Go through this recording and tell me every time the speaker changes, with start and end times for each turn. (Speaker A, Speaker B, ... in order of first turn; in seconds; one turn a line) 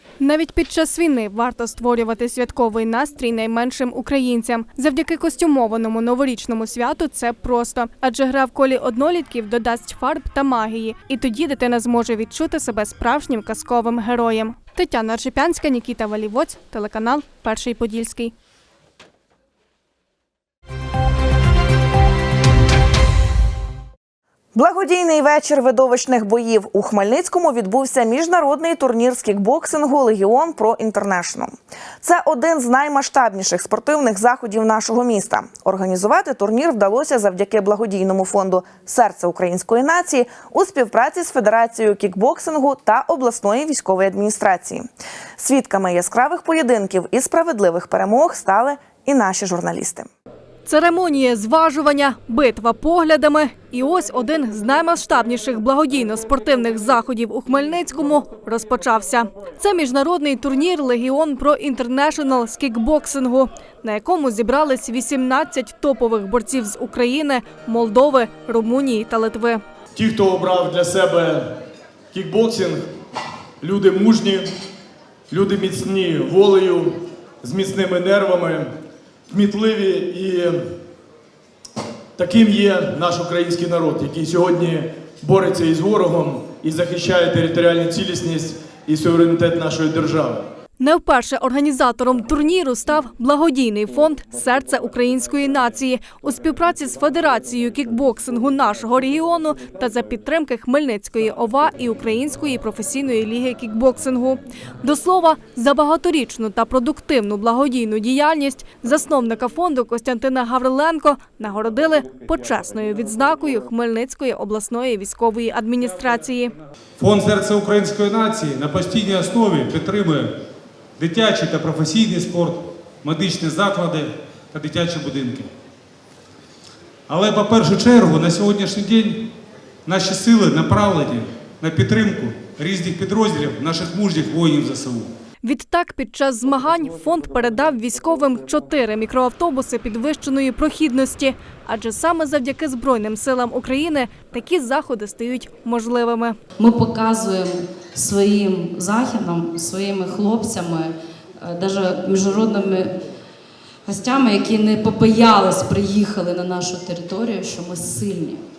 Speaker A: 0.2-18.3
Speaker B: 24.6-50.1
Speaker A: 50.6-69.6
Speaker C: 69.9-72.9
Speaker C: 73.6-74.5
Speaker C: 75.3-78.7
Speaker C: 79.3-80.8
Speaker C: 82.2-90.5
Speaker A: 90.8-116.5
Speaker D: 117.0-120.4
Speaker D: 121.0-125.5
Speaker D: 127.1-129.3
Speaker D: 129.9-135.1
Speaker A: 135.4-146.4
Speaker E: 146.6-153.0
Speaker E: 153.8-158.4